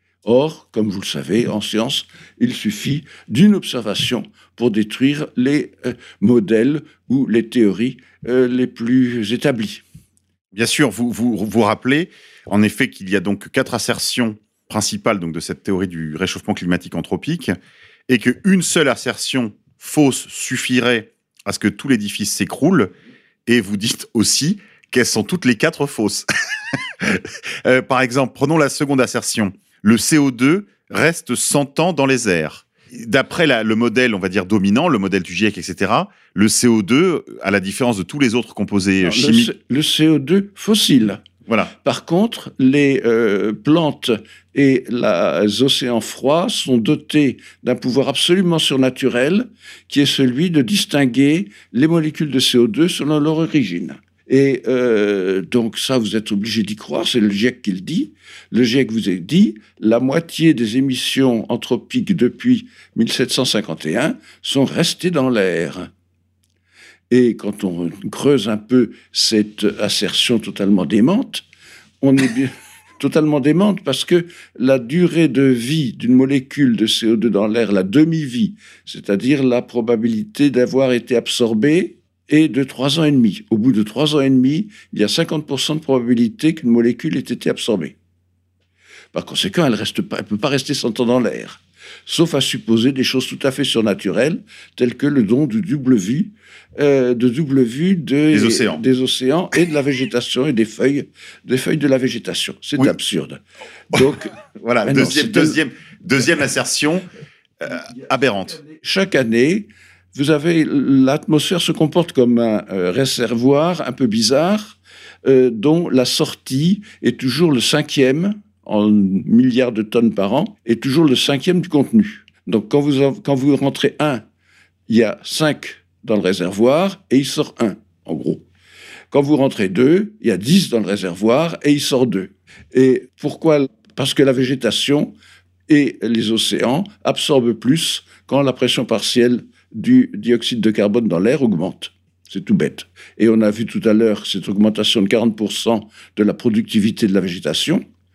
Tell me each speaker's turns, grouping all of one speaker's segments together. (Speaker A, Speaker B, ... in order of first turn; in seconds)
Speaker A: 0.2-9.8, 39.0-41.2, 41.8-65.9, 67.1-71.5, 72.0-88.0, 89.1-103.4, 103.9-105.6, 108.8-124.2, 124.9-128.4, 129.1-135.2, 135.7-147.8
Speaker B: 10.5-17.6, 18.1-22.9, 23.5-26.3, 27.0-39.5, 41.5-41.7, 98.3-98.8, 103.9-107.0, 107.6-108.6